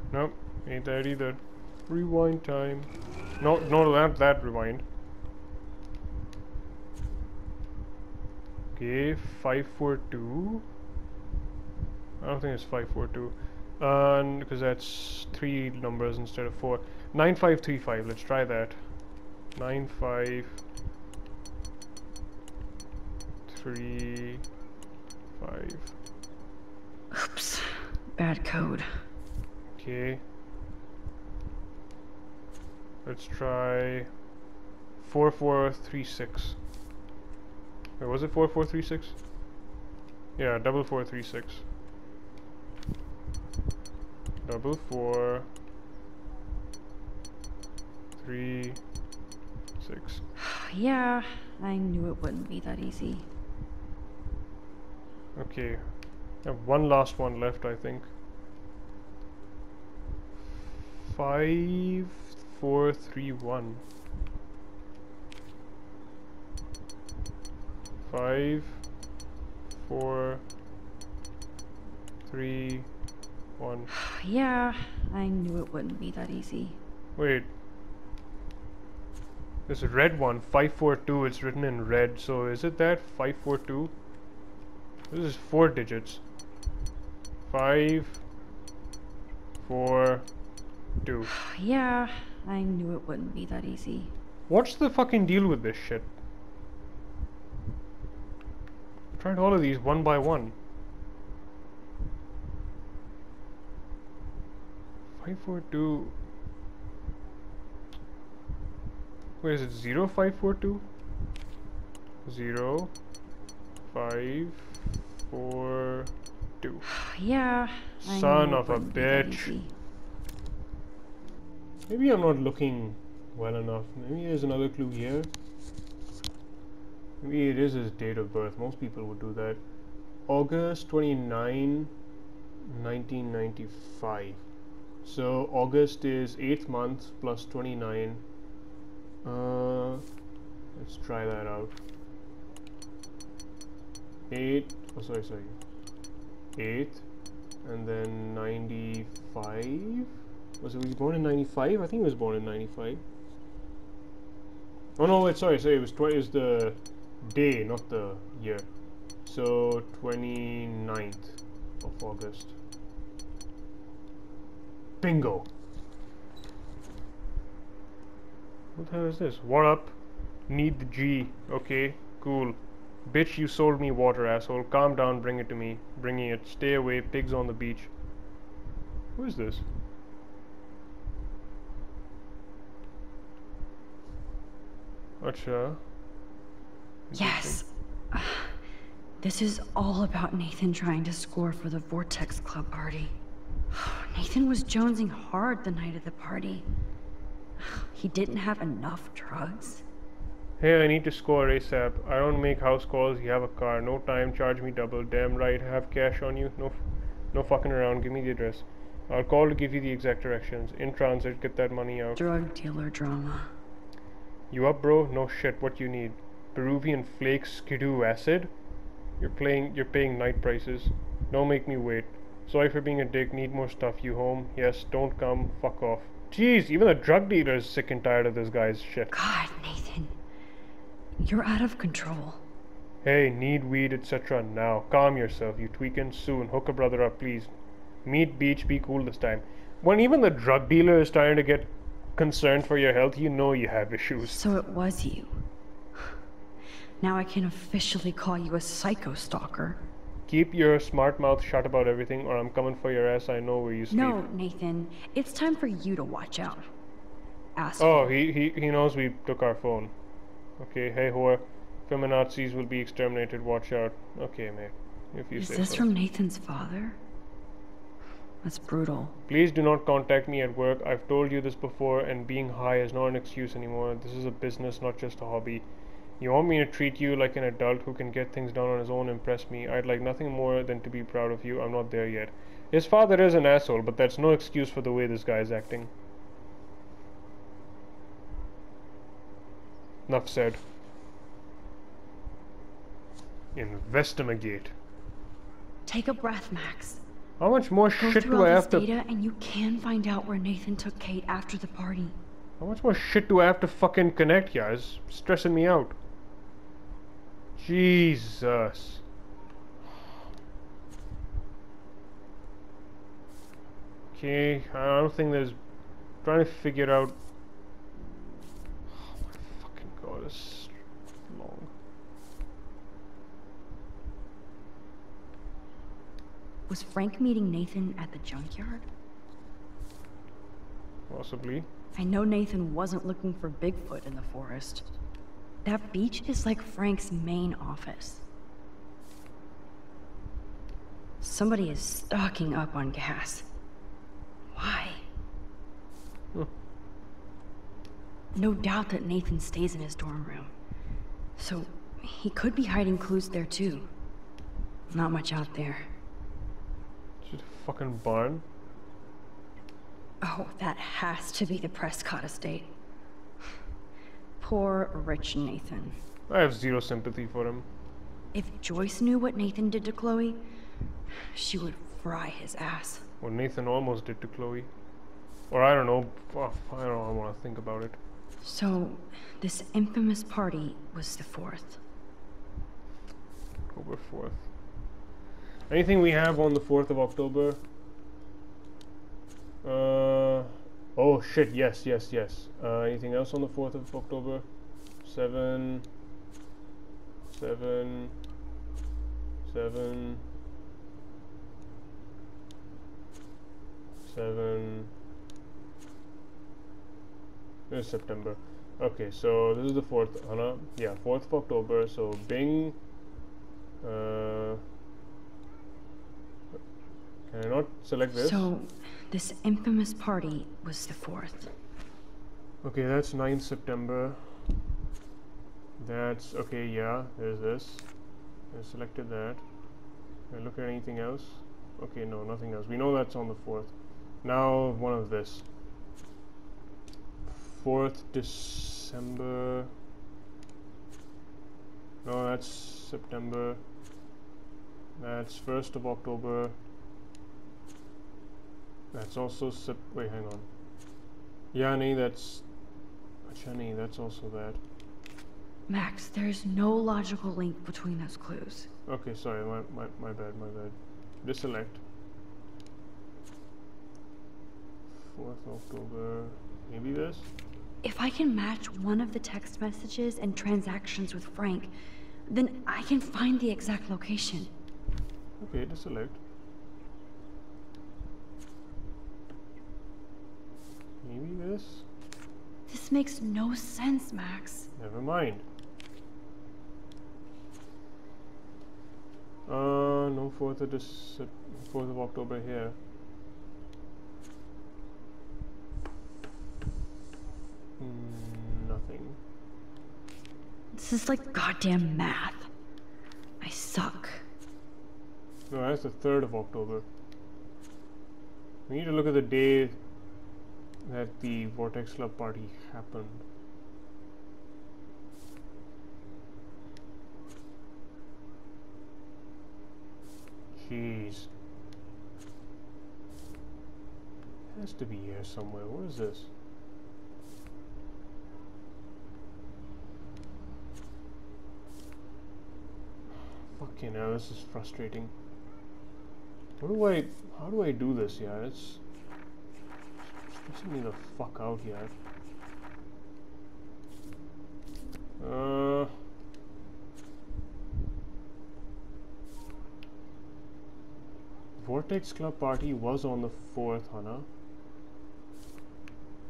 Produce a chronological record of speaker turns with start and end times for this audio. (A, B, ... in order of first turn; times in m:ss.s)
0:00.1-0:04.8 A
0:08.8-0:10.6 A
0:12.2-0:18.9 A
0:19.5-0:20.6 A
0:23.4-0:24.4 A
0:25.4-0:25.9 A
0:27.1-0:29.0 B
0:29.7-0:30.2 A
0:33.0-0:34.1 A
0:35.0-0:36.6 A
0:38.0-0:39.2 A
0:40.4-0:41.6 A
0:44.4-0:45.5 A
0:48.2-0:48.8 A
0:49.8-0:50.2 A
0:50.4-0:53.3 B
0:55.4-0:55.8 A
0:56.4-0:58.1 A
1:01.0-1:03.8 A
1:08.0-1:08.8 A
1:09.8-1:10.4 A
1:12.3-1:12.9 A
1:13.6-1:13.9 A
1:14.0-1:16.8 B
1:17.2-1:17.5 A
1:19.7-1:23.9 A
1:25.1-1:26.2 A
1:27.5-1:28.2 A
1:29.6-1:30.3 A
1:31.0-1:31.3 A
1:31.3-1:34.1 B
1:34.5-1:36.1 A
1:39.2-1:40.6 A
1:45.2-1:46.2 A
1:49.4-1:50.8 A
1:52.2-1:52.9 A
1:53.9-1:56.8 A
1:56.9-1:59.7 B
1:58.0-1:59.5 A
2:01.9-2:05.3 A
2:07.2-2:09.6 A
2:10.3-2:11.9 A
2:12.6-2:14.4 A
2:15.0-2:18.2 A
2:19.2-2:20.0 A
2:20.7-2:21.8 A
2:24.3-2:25.6 A
2:26.6-2:27.0 A
2:27.6-2:33.0 A
2:35.0-2:38.7 A
2:39.2-2:42.6 A
2:45.0-2:45.5 A
2:48.8-2:50.0 A
2:50.5-2:57.9 A
2:59.2-2:59.6 A
3:05.2-3:05.8 A
3:07.1-3:07.6 A
3:07.2-3:08.6 B
3:09.2-3:13.1 B
3:13.7-3:16.7 B
3:17.6-3:19.8 B
3:20.6-3:32.2 A
3:32.2-3:33.5 B
3:34.5-3:38.5 A
3:39.2-3:49.1 A
3:49.1-3:50.1 B
3:51.2-3:52.4 B
3:53.0-3:57.5 A
3:58.0-4:04.4 A
4:04.2-4:05.4 B
4:07.0-4:09.8 B
4:10.3-4:14.2 A
4:13.9-4:16.7 B
4:17.6-4:18.1 B
4:17.8-4:19.9 A
4:20.6-4:25.9 A
4:25.4-4:27.0 B
4:28.4-4:29.2 B
4:29.3-4:35.6 A
4:36.2-4:45.9 A
4:50.1-4:50.6 A
4:53.6-4:54.7 A
4:55.9-4:57.0 B
4:57.4-4:58.9 A
4:58.0-5:02.2 B
5:02.6-5:06.0 A
5:07.6-5:09.0 A
5:14.1-5:15.6 A
5:16.2-5:17.2 A
5:18.9-5:20.7 A
5:21.3-5:21.7 A
5:26.7-5:28.9 B
5:31.1-5:31.7 A
5:32.0-5:34.9 B
5:35.6-5:38.2 B
5:41.2-5:43.5 B
5:44.5-5:45.0 B
5:48.4-5:50.5 B
5:51.4-5:53.9 B
5:54.9-5:55.9 B
5:57.2-5:58.4 A
6:00.2-6:02.7 B
6:04.4-6:06.0 B
6:06.3-6:07.7 A
6:08.3-6:10.5 B
6:11.2-6:13.0 B
6:13.2-6:14.7 A
6:15.5-6:18.0 A
6:18.4-6:21.8 B
6:23.7-6:24.5 A
6:25.7-6:27.6 A
6:29.6-6:34.5 A
6:35.0-6:35.9 A
6:37.3-6:38.1 A
6:39.4-6:40.2 A
6:44.1-6:44.9 A
6:47.7-6:52.8 A
6:53.8-6:54.6 A
6:57.3-6:58.5 A
6:58.1-7:01.5 B
7:02.6-7:04.5 A
7:05.8-7:07.9 A
7:08.5-7:09.4 A
7:10.3-7:15.4 A
7:17.2-7:19.7 A
7:22.0-7:23.6 A
7:25.0-7:26.6 A
7:28.9-7:30.5 A
7:31.5-7:32.4 A
7:33.3-7:34.6 A
7:35.7-7:38.7 B
7:38.9-7:41.8 A
7:44.9-7:47.3 A
7:47.8-7:51.7 B
7:52.3-7:54.5 B
7:55.4-7:56.2 A
8:01.0-8:01.9 A
8:02.7-8:04.7 B
8:04.8-8:05.4 A
8:09.5-8:12.8 A
8:17.8-8:19.2 A
8:20.7-8:22.5 B
8:23.4-8:24.2 B
8:25.5-8:26.9 A
8:28.7-8:29.8 A
8:30.8-8:33.2 A
8:40.6-8:41.3 A
8:44.5-8:46.3 A
8:53.5-8:55.1 A
8:56.6-8:58.8 A
9:00.2-9:01.9 A
9:05.2-9:05.9 A
9:11.6-9:14.3 A